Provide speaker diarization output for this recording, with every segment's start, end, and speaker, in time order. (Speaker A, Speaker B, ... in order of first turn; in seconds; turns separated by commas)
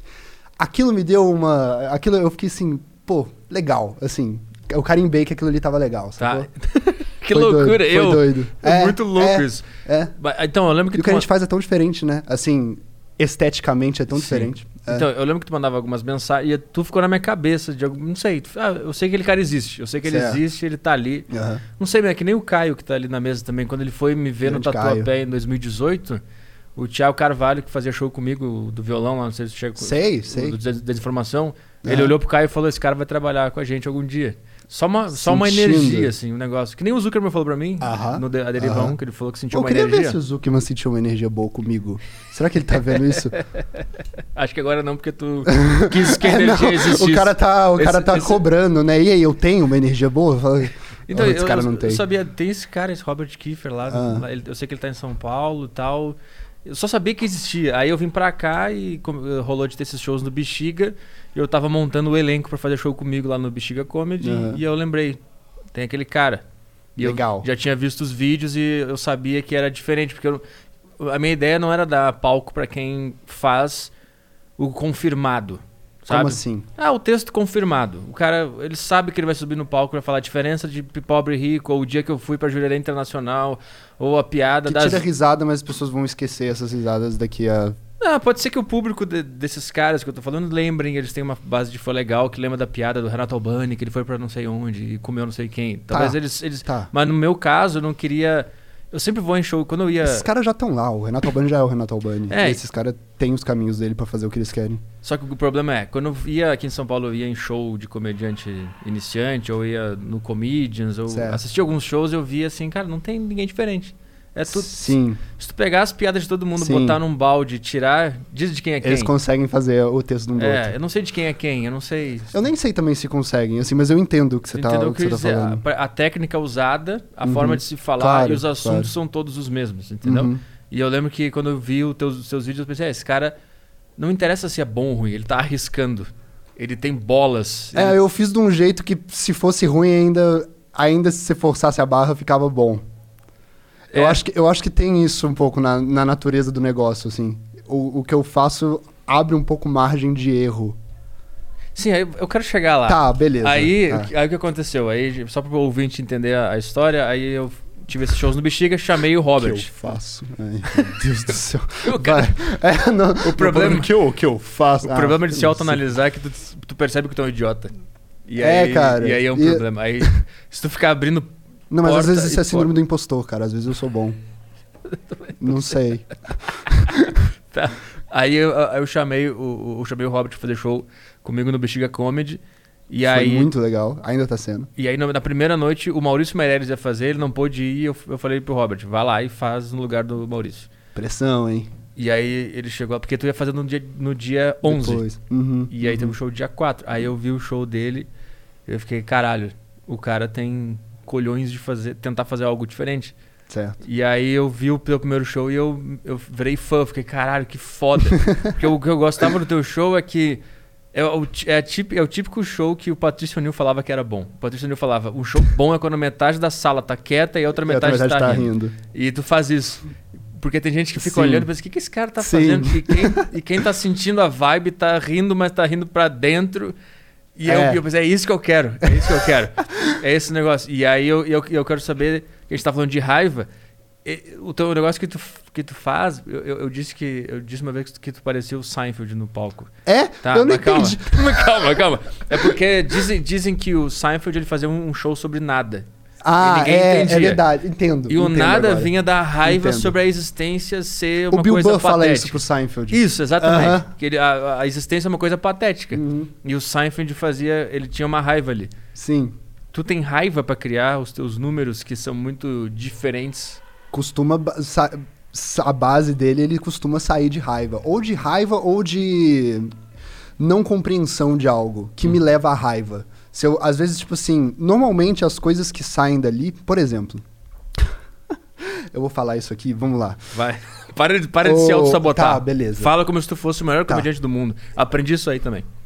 Speaker A: 0.6-6.5, Speaker B: 6.2-11.3, Speaker A: 7.3-10.1, Speaker A: 10.9-15.1, Speaker B: 14.2-26.2, Speaker A: 20.1-20.4, Speaker A: 21.3-21.6, Speaker A: 24.4-25.1, Speaker B: 26.8-40.2, Speaker A: 29.8-30.6, Speaker A: 31.8-32.1, Speaker A: 35.1-36.1, Speaker A: 37.8-39.0, Speaker A: 39.5-43.4, Speaker B: 44.4-48.4, Speaker A: 45.5-52.0, Speaker B: 51.1-65.2, Speaker A: 53.9-54.2, Speaker A: 64.2-64.6, Speaker B: 65.7-66.4, Speaker B: 67.0-70.4, Speaker A: 67.0-67.5, Speaker B: 71.0-73.9, Speaker B: 74.6-85.0, Speaker A: 76.1-76.7, Speaker A: 84.7-87.8, Speaker B: 88.0-100.3, Speaker A: 95.9-96.9, Speaker A: 100.0-104.8, Speaker B: 102.3-102.6, Speaker B: 105.0-119.1, Speaker A: 111.1-111.4, Speaker A: 114.5-115.2, Speaker A: 116.6-117.0, Speaker A: 118.8-120.8, Speaker B: 120.4-122.4, Speaker A: 122.3-125.6, Speaker B: 124.5-133.3, Speaker A: 127.2-128.9, Speaker A: 130.1-130.4, Speaker B: 134.0-138.0, Speaker A: 137.7-142.8, Speaker B: 143.9-144.2, Speaker A: 143.9-150.8, Speaker B: 151.8-159.7, Speaker A: 152.9-154.1, Speaker A: 159.4-165.8, Speaker B: 160.7-161.0, Speaker B: 161.8-162.4, Speaker B: 163.2-163.9, Speaker B: 164.8-167.7, Speaker B: 168.3-171.3, Speaker A: 168.4-170.1, Speaker A: 171.7-174.2, Speaker B: 171.8-172.7, Speaker B: 174.9-175.8, Speaker A: 175.4-177.2, Speaker B: 176.7-183.5, Speaker A: 183.1-184.7, Speaker B: 184.8-190.7, Speaker A: 190.9-191.7, Speaker B: 192.0-195.0, Speaker A: 194.6-196.1, Speaker B: 195.7-198.1, Speaker B: 198.7-203.2, Speaker A: 203.5-203.8, Speaker B: 203.8-210.4, Speaker B: 210.9-219.8, Speaker A: 217.7-218.8, Speaker B: 220.4-226.8, Speaker A: 221.0-221.5, Speaker A: 222.2-223.2, Speaker B: 227.4-233.5, Speaker A: 227.5-227.8, Speaker A: 228.9-229.3, Speaker B: 234.1-239.7, Speaker A: 239.9-241.8, Speaker B: 240.2-247.4, Speaker A: 246.2-248.9, Speaker B: 248.1-258.7, Speaker A: 249.4-250.0, Speaker A: 251.3-253.9, Speaker A: 255.9-256.3, Speaker A: 258.9-259.4, Speaker B: 259.7-263.6, Speaker A: 263.9-269.7, Speaker A: 270.4-277.2, Speaker A: 278.6-280.2, Speaker B: 280.3-285.7, Speaker A: 281.4-282.9